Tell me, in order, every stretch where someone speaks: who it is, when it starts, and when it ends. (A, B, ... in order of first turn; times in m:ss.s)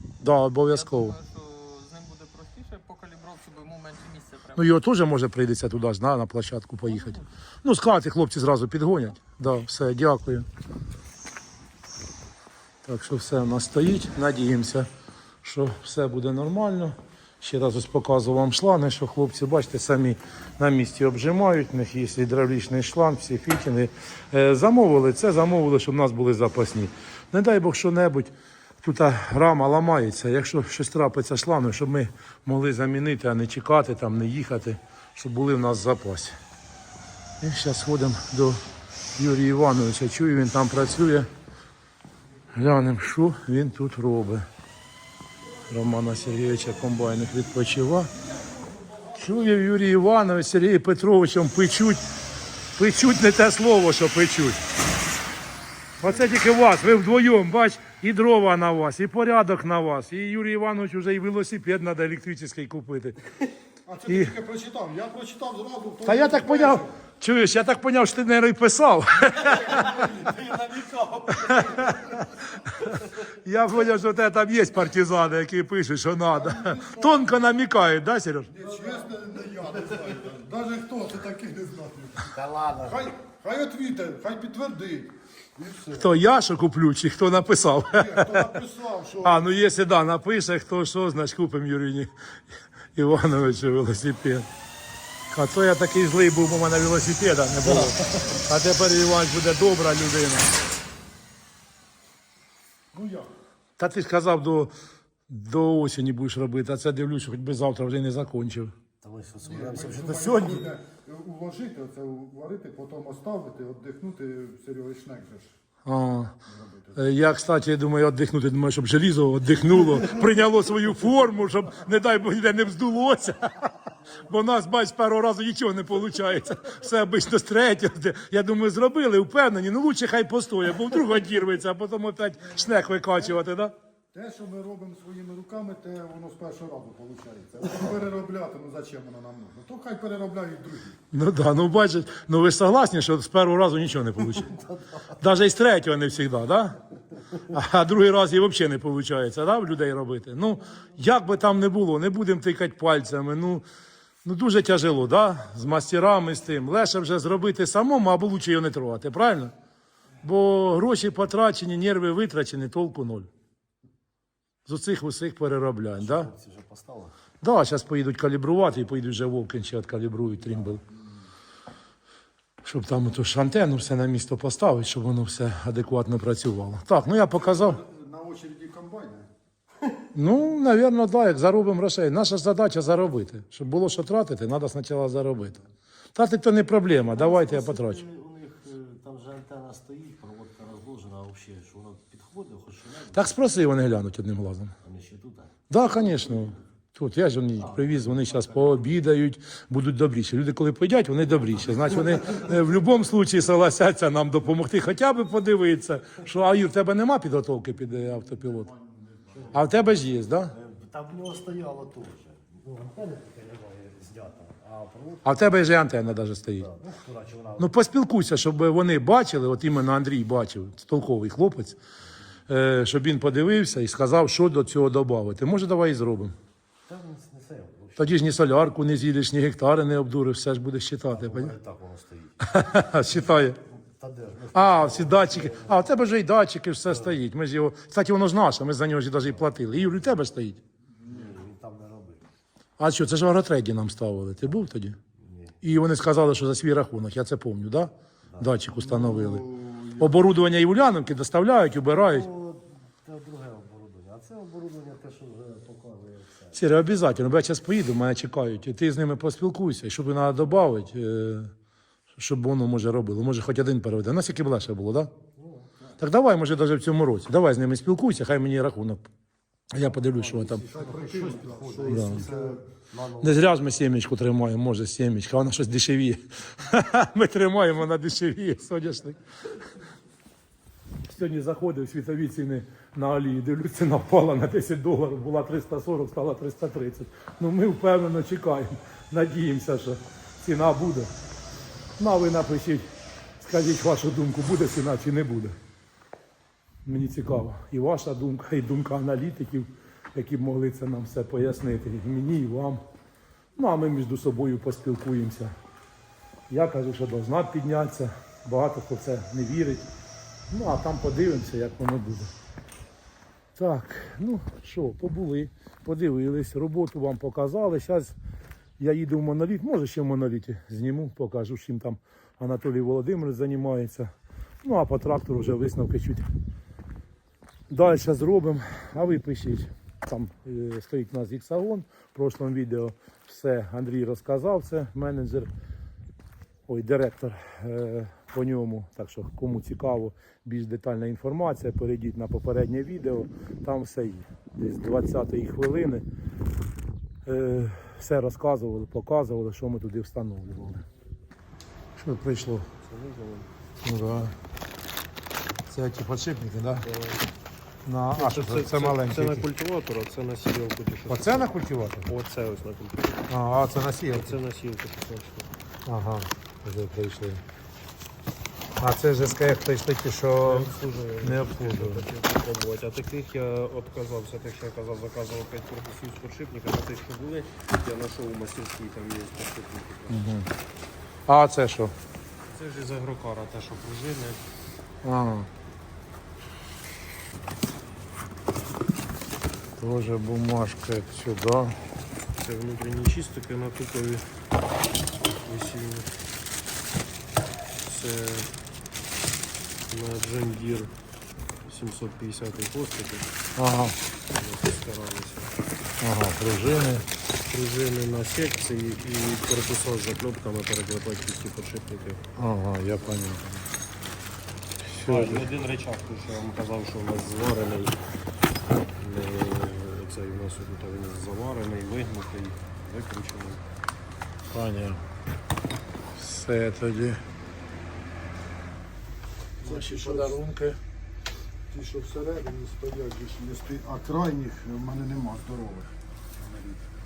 0:00.2-0:01.2 A
0:00.7-0:04.7 B
0:04.6-0:10.5 A
0:06.9-0:07.2 B
0:12.8-0:14.9 A
0:15.4-0:36.4 A
0:37.4-0:38.6 A
0:39.2-0:41.3 A
0:42.5-0:44.5 A
0:45.7-0:48.1 A
0:49.2-0:52.0 A
0:52.8-0:54.6 A
0:56.0-1:03.2 A
1:03.9-1:06.9 C
1:04.1-1:04.4 A
1:06.0-1:09.8 A
1:09.5-1:11.9 C
1:11.3-1:12.2 A
1:13.4-1:18.5 A
1:16.3-1:17.3 C
1:18.5-1:26.1 C
1:18.7-1:19.1 D
1:22.3-1:23.1 D
1:25.9-1:28.5 A
1:27.9-1:29.5 C
1:29.2-1:32.1 A
1:33.0-1:34.5 A
1:35.3-1:40.5 A
1:42.9-1:43.3 C
1:43.8-1:44.7 A
1:45.3-1:48.7 A
1:49.0-1:50.7 D
1:49.4-1:55.5 C
1:55.8-1:56.3 A
1:56.5-1:57.1 C
1:57.0-2:03.7 A
2:04.3-2:13.8 A
2:14.1-2:21.0 C
2:21.1-2:24.5 A
2:24.4-2:25.1 D
2:25.2-2:26.8 A
2:27.5-2:33.6 A
2:34.2-2:39.5 A
2:40.2-2:43.3 A
2:44.7-2:46.3 A
2:46.0-2:47.1 D
2:47.4-2:50.8 A
2:52.6-2:57.8 A
2:57.3-2:59.3 C
3:00.1-3:05.6 A
3:06.2-3:08.0 A
3:07.0-3:13.4 D
3:13.1-3:14.7 A
3:14.8-3:16.6 D
3:15.7-3:28.7 A
3:17.6-3:18.8 D
3:29.3-3:29.8 D
3:29.5-3:30.5 A
3:30.5-3:35.4 D
3:35.2-3:36.7 A
3:36.6-3:37.7 D
3:37.6-3:41.8 A
3:42.5-3:46.4 A
3:46.9-3:48.2 D
3:48.0-3:51.6 A
3:51.1-3:52.5 D
3:52.4-3:53.6 A
3:53.0-3:55.9 D
3:54.5-4:00.6 A
4:01.1-4:02.2 D
4:02.8-4:05.0 A
4:05.2-4:05.6 D
4:05.6-4:09.4 A
4:08.3-4:08.6 D
4:08.7-4:10.2 C
4:10.0-4:12.3 A
4:12.0-4:16.6 D
4:16.5-4:21.5 A
4:22.1-4:25.1 A
4:25.4-4:25.7 D
4:26.0-4:29.1 A
4:29.7-4:30.7 A
4:30.1-4:33.4 D
4:30.5-4:32.6 C
4:31.9-4:32.3 A
4:33.2-4:39.2 A
4:41.0-4:51.1 A
4:52.0-4:55.6 A
4:56.8-5:02.8 A
5:03.6-5:05.5 A
5:06.5-5:09.9 A
5:10.5-5:12.3 A
5:13.6-5:18.2 A
5:18.8-5:24.1 A
5:24.6-5:26.3 A
5:27.7-5:35.5 A
5:36.7-5:46.1 A
5:47.3-5:50.8 A
5:52.0-5:52.7 A
5:52.8-5:53.5 E
5:53.8-5:54.4 A
5:55.7-5:56.9 A
5:56.7-5:57.2 E
5:57.8-5:59.5 A
5:58.2-6:01.5 E
6:01.1-6:02.1 A
6:02.1-6:03.3 E
6:03.3-6:04.4 A
6:04.1-6:05.5 E
6:05.8-6:07.4 A
6:08.8-6:12.0 A
6:10.4-6:20.2 E
6:20.1-6:20.5 A
6:21.3-6:22.0 A
6:22.5-6:24.4 E
6:25.0-6:25.5 A
6:29.8-6:31.8 A
6:32.4-6:34.3 E
6:35.2-6:36.1 E
6:37.8-6:38.5 E
6:39.9-6:40.9 E
6:41.7-6:43.3 E
6:43.6-6:44.0 A
6:44.3-6:45.6 E
6:46.0-6:47.1 A
6:47.5-6:52.2 E
6:52.4-6:53.6 A
6:54.9-6:55.5 A
6:55.0-6:58.0 E
6:59.0-7:03.6 E
7:04.5-7:05.0 A
7:06.1-7:07.2 A
7:09.6-7:10.4 C
7:09.6-7:10.8 A
7:11.7-7:16.8 C